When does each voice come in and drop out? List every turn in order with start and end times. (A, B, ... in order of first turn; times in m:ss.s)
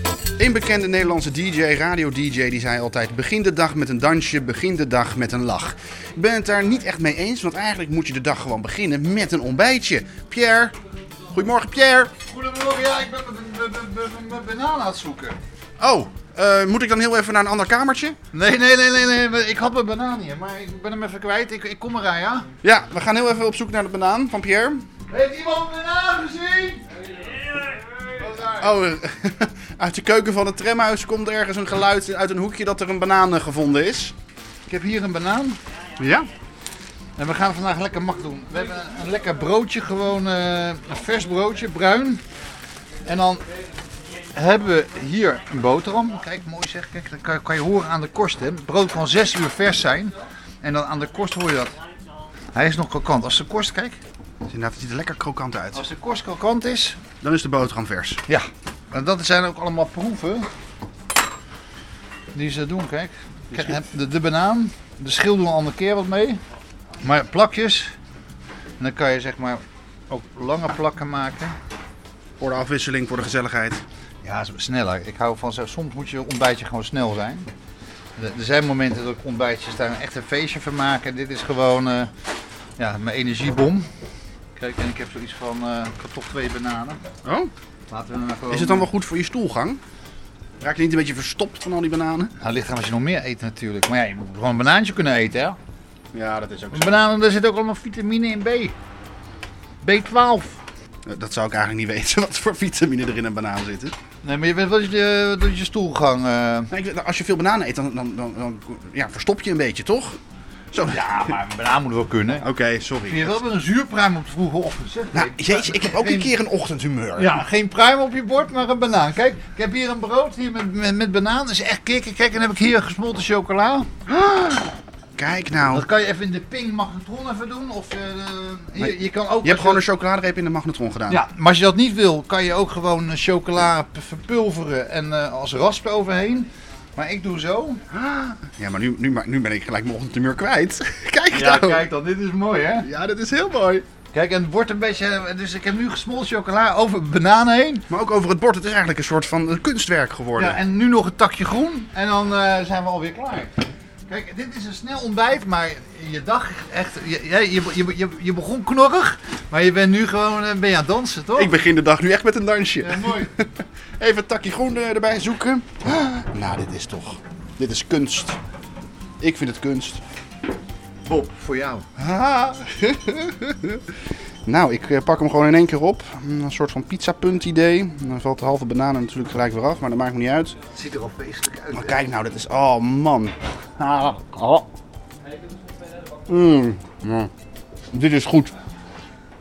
0:00.4-0:10.7 A
0:11.3-0:12.1 A
0:12.2-0:15.4 B
0:15.8-0:18.2 A
0:18.3-0:22.5 B
0:22.6-0:24.8 A
0:25.1-0:26.8 B
0:28.1-0:28.6 B
0:28.5-0:34.1 A
0:34.7-0:35.6 B
0:36.0-0:36.3 A
0:37.2-0:42.2 B
0:43.1-0:43.4 B
0:44.3-0:51.8 B
0:52.5-0:54.0 B
0:54.5-0:55.9 A
0:55.7-0:57.0 B
0:57.2-0:58.2 A
0:58.3-1:00.5 B
1:02.3-1:06.4 B
1:03.5-1:03.8 A
1:07.0-1:07.9 B
1:08.8-1:11.6 B
1:12.4-1:13.8 A
1:14.2-1:17.5 B
1:18.2-1:22.1 B
1:22.8-1:23.9 B
1:24.6-1:27.0 B
1:27.2-1:27.5 A
1:27.9-1:28.9 B
1:28.5-1:29.8 A
1:30.6-1:32.3 A
1:32.4-1:35.6 B
1:36.1-1:37.0 A
1:36.7-1:38.8 B
1:39.8-1:40.6 B
1:41.1-1:43.9 A
1:44.2-1:46.7 B
1:46.7-1:50.2 A
1:50.7-1:51.3 A
1:50.8-1:52.5 B
1:52.4-1:53.4 A
1:53.1-1:56.3 B
1:55.1-1:57.4 A
1:57.2-2:03.9 B
2:04.1-2:05.9 A
2:05.7-2:09.8 B
2:08.8-2:11.2 A
2:11.1-2:17.8 B
2:17.9-2:21.9 A
2:21.3-2:22.9 B
2:22.8-2:23.8 A
2:24.1-2:27.8 B
2:27.9-2:30.6 A
2:30.4-2:33.5 B
2:34.1-2:41.6 B
2:41.4-2:48.4 A
2:42.8-2:43.3 B
2:49.2-2:50.0 A
2:51.1-2:51.9 B
2:52.0-2:53.8 A
2:54.5-3:00.6 A
3:00.7-3:02.0 B
3:01.7-3:04.7 A
3:06.3-3:07.3 A
3:07.9-3:08.5 A